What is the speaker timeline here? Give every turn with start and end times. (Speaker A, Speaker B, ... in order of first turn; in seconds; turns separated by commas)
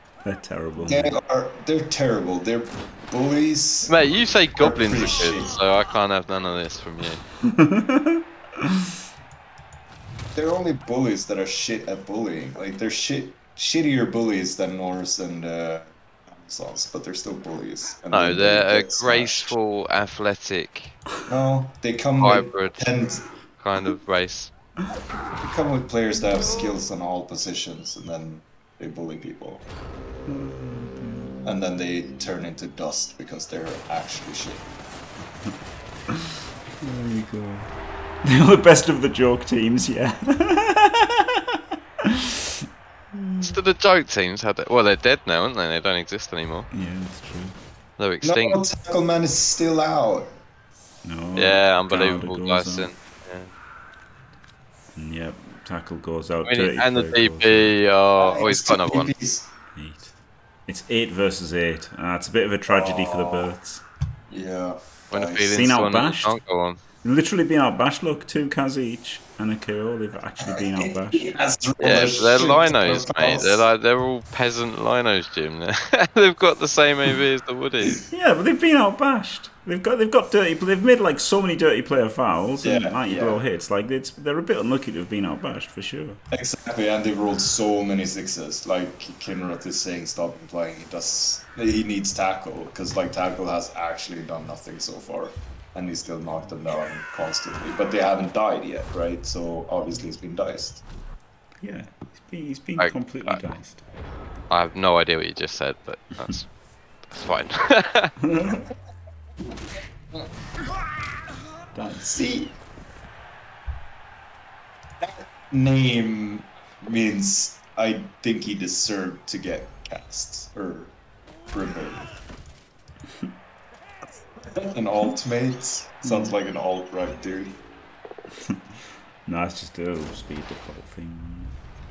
Speaker A: 0.2-1.2, Speaker B: 0.8-5.6, Speaker C: 3.9-7.2, Speaker A: 7.4-8.9, Speaker B: 10.3-19.6, Speaker C: 18.1-21.0, Speaker B: 21.2-23.2, Speaker C: 22.2-22.9, Speaker C: 23.6-24.5, Speaker B: 25.4-29.6, Speaker A: 30.2-31.3, Speaker B: 31.4-34.7, Speaker A: 36.1-37.7, Speaker A: 38.2-42.4, Speaker A: 43.1-43.6, Speaker C: 43.4-46.7, Speaker A: 46.7-47.6, Speaker C: 48.0-48.6, Speaker B: 48.2-50.3, Speaker A: 51.0-52.9, Speaker C: 51.4-53.5, Speaker A: 55.0-57.8, Speaker C: 56.5-59.1, Speaker B: 58.2-59.5, Speaker A: 59.7-60.1, Speaker A: 60.7-63.8, Speaker B: 62.7-63.5, Speaker B: 64.3-65.8, Speaker C: 65.1-66.8, Speaker A: 65.5-66.3, Speaker A: 67.0-71.3, Speaker B: 70.5-73.7, Speaker C: 71.8-78.0, Speaker A: 78.1-86.2, Speaker B: 82.6-83.4, Speaker B: 86.3-100.8, Speaker A: 101.6-103.8, Speaker C: 102.8-103.4, Speaker C: 104.5-106.5, Speaker C: 107.1-108.1, Speaker A: 108.2-108.7, Speaker A: 111.7-112.2, Speaker B: 112.1-112.5, Speaker B: 115.0-121.0, Speaker B: 121.5-122.1, Speaker B: 124.4-127.6, Speaker A: 126.0-126.3, Speaker A: 129.2-131.6